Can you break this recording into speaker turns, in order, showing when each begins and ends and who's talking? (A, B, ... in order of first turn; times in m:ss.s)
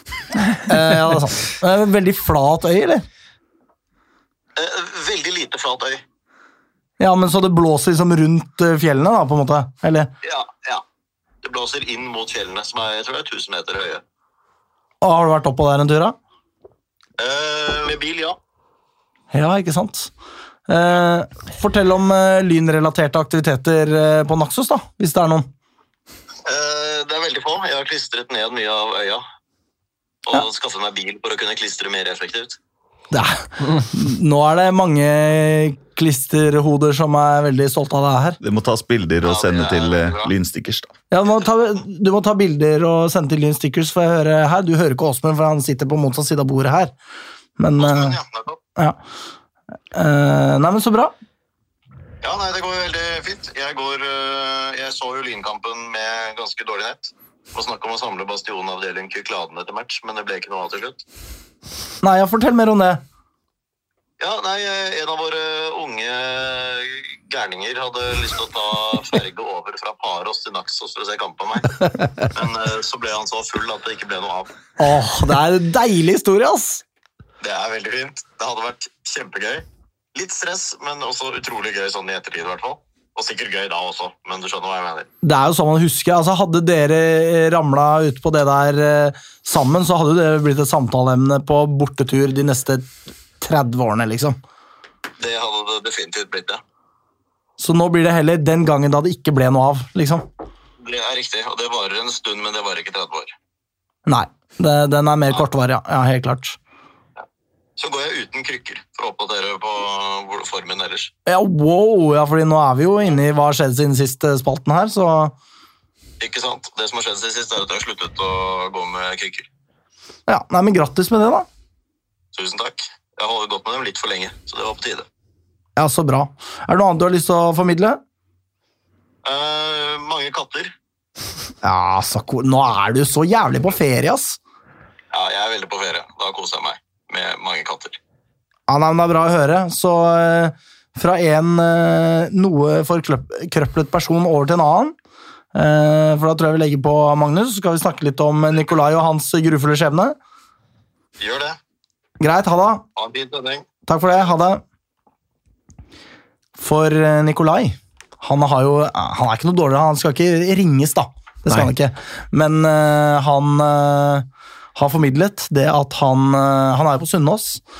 0:00.6-0:03.0 A
0:04.6-0:06.0 B
0:07.0-0:10.1 A
0:10.2-0:10.8 B
0:11.4-0:14.0 B
0:15.0-0:16.2 A
0:17.2-0:18.4 B
0:19.3-0:20.1 A
0:20.7-0:25.5 A
0:26.4-0:29.2 B
0:30.2-0:32.6 B
0:33.1-0:38.4 A
0:38.4-0:40.9 C
0:39.2-0:40.3 B
0:41.1-0:46.9 A
0:47.6-0:48.2 A
0:47.8-0:48.6 B
0:49.9-0:51.1 A
0:52.2-1:01.0 B
1:02.0-1:03.0 A
1:04.2-1:14.5 B
1:14.8-1:16.8 A
1:17.4-1:25.1 B
1:25.2-1:34.4 A
1:35.2-1:36.6 B
1:37.6-1:40.2 A
1:40.8-1:43.3 B
1:44.0-1:46.6 A
1:47.8-1:51.1 B
1:51.2-1:55.3 A
1:56.2-1:59.5 B
2:00.3-2:01.5 A
2:02.3-2:05.0 B
2:05.8-2:08.0 A
2:09.2-2:10.7 B
2:11.6-2:14.4 A
2:15.1-2:18.0 B
2:18.7-2:24.9 A
2:25.5-2:30.2 A
2:31.2-2:31.6 B
2:32.2-2:32.8 A
2:33.0-2:33.6 B
2:33.9-2:34.6 A
2:36.6-2:47.6 A